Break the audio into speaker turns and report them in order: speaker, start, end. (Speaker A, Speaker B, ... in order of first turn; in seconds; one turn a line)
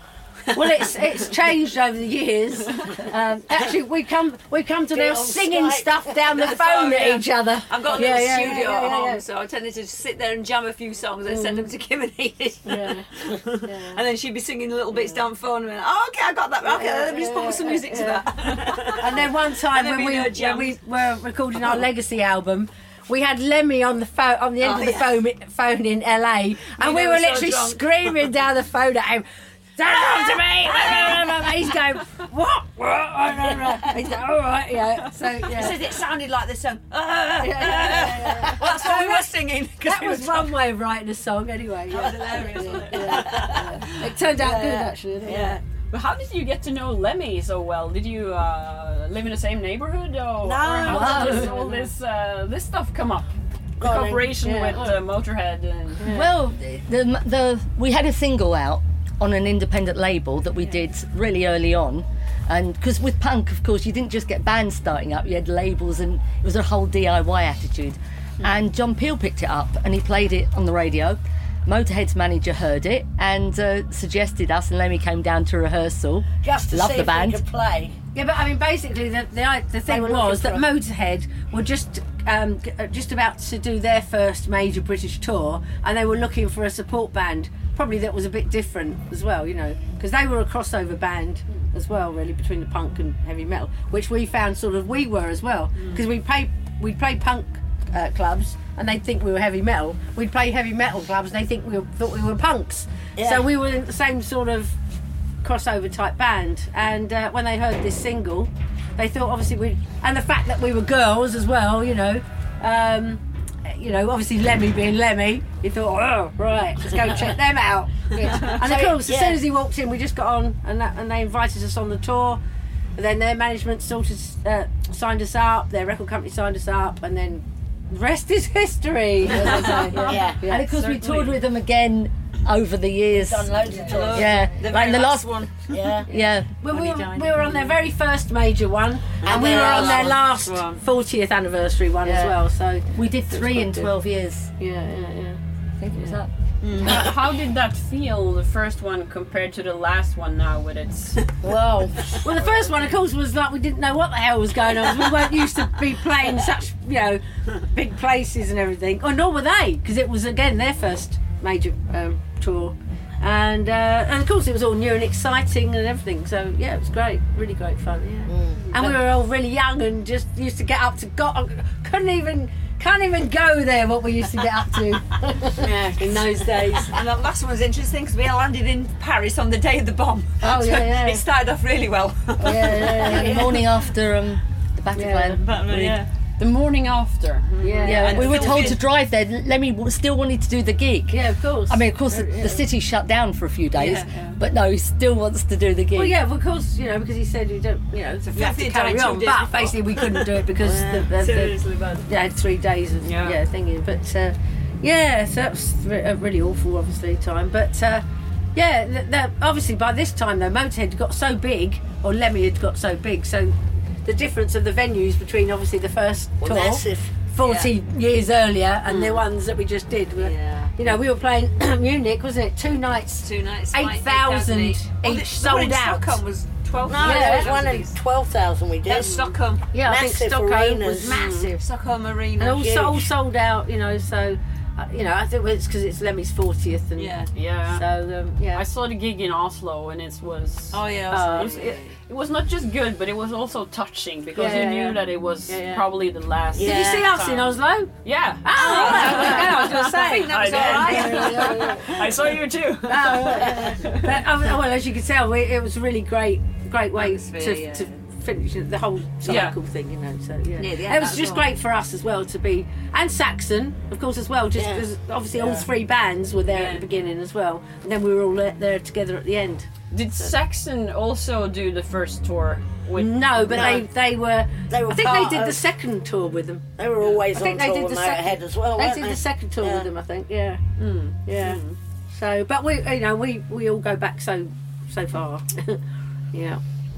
Speaker A: 0.5-9.2
Speaker B: 4.9-6.1
Speaker C: 6.3-20.8
Speaker A: 11.3-11.7
Speaker A: 12.7-14.0
Speaker A: 16.6-29.2
Speaker C: 24.6-25.2
Speaker C: 26.7-28.1
Speaker A: 29.8-35.9
Speaker C: 30.8-31.1
Speaker B: 33.5-33.9
Speaker C: 35.4-40.6
Speaker A: 37.4-45.6
Speaker C: 41.9-44.0
Speaker B: 42.9-43.5
Speaker B: 44.4-45.6
Speaker D: 45.9-56.1
Speaker B: 50.4-51.7
Speaker A: 50.9-51.8
Speaker E: 50.9-51.4
Speaker B: 53.8-54.4
Speaker A: 54.4-54.9
Speaker A: 56.0-56.3
Speaker E: 56.1-77.4
Speaker B: 76.4-78.0
Speaker A: 78.1-104.8
Speaker B: 79.9-80.7
Speaker B: 103.2-103.5
Speaker A: 105.4-122.4
Speaker B: 118.4-119.4
Speaker A: 123.0-130.7
Speaker E: 129.3-135.5
Speaker B: 130.1-130.4
Speaker D: 130.6-131.4
Speaker B: 133.2-134.5
Speaker C: 133.7-136.1
Speaker B: 135.7-136.1
Speaker E: 136.1-136.5
Speaker A: 136.2-143.9
Speaker C: 136.7-137.8
Speaker B: 139.2-140.2
Speaker C: 139.2-140.8
Speaker E: 142.0-142.4
Speaker E: 142.9-144.5
Speaker A: 144.6-145.4
Speaker E: 145.8-146.3
Speaker C: 146.6-147.1
Speaker D: 146.8-151.3
Speaker B: 151.4-152.5
Speaker A: 152.2-177.0
Speaker B: 168.3-168.7
Speaker C: 175.6-183.3
Speaker A: 180.4-181.2
Speaker A: 182.4-183.6
Speaker E: 182.8-186.0
Speaker B: 183.2-183.5
Speaker A: 184.9-185.4
Speaker C: 185.4-186.1
Speaker D: 186.4-187.9
Speaker A: 187.6-188.7
Speaker C: 187.7-188.8
Speaker E: 187.8-196.2
Speaker A: 191.1-192.7
Speaker C: 193.8-194.3
Speaker A: 195.9-208.0
Speaker C: 198.2-202.1
Speaker D: 203.0-203.4
Speaker A: 208.6-226.2
Speaker B: 216.4-217.2
Speaker C: 217.4-217.7
Speaker D: 218.9-219.2
Speaker C: 220.2-220.7
Speaker C: 223.2-227.9
Speaker B: 226.9-231.2
Speaker A: 226.9-227.6
Speaker C: 228.8-229.7
Speaker A: 229.7-231.6
Speaker C: 231.0-232.8
Speaker D: 231.0-231.5
Speaker A: 232.4-237.2
Speaker B: 232.6-233.0
Speaker C: 237.0-237.3
Speaker D: 237.3-237.8
Speaker A: 237.7-238.6
Speaker D: 238.5-254.2
Speaker C: 240.7-241.9
Speaker A: 241.1-241.6
Speaker A: 244.3-245.8
Speaker C: 246.6-247.4
Speaker A: 246.6-247.9
Speaker B: 246.8-247.1
Speaker A: 248.4-252.0
Speaker C: 248.5-252.1
Speaker A: 252.8-269.7
Speaker C: 256.9-257.9
Speaker D: 259.2-259.6
Speaker C: 260.6-261.5
Speaker B: 264.6-265.7
Speaker C: 266.5-266.9
Speaker D: 269.9-273.8
Speaker A: 273.0-276.7
Speaker B: 273.5-273.8
Speaker B: 274.7-275.6
Speaker B: 276.8-279.9
Speaker A: 277.3-280.6
Speaker D: 280.8-281.8
Speaker A: 281.3-285.8
Speaker A: 286.3-286.6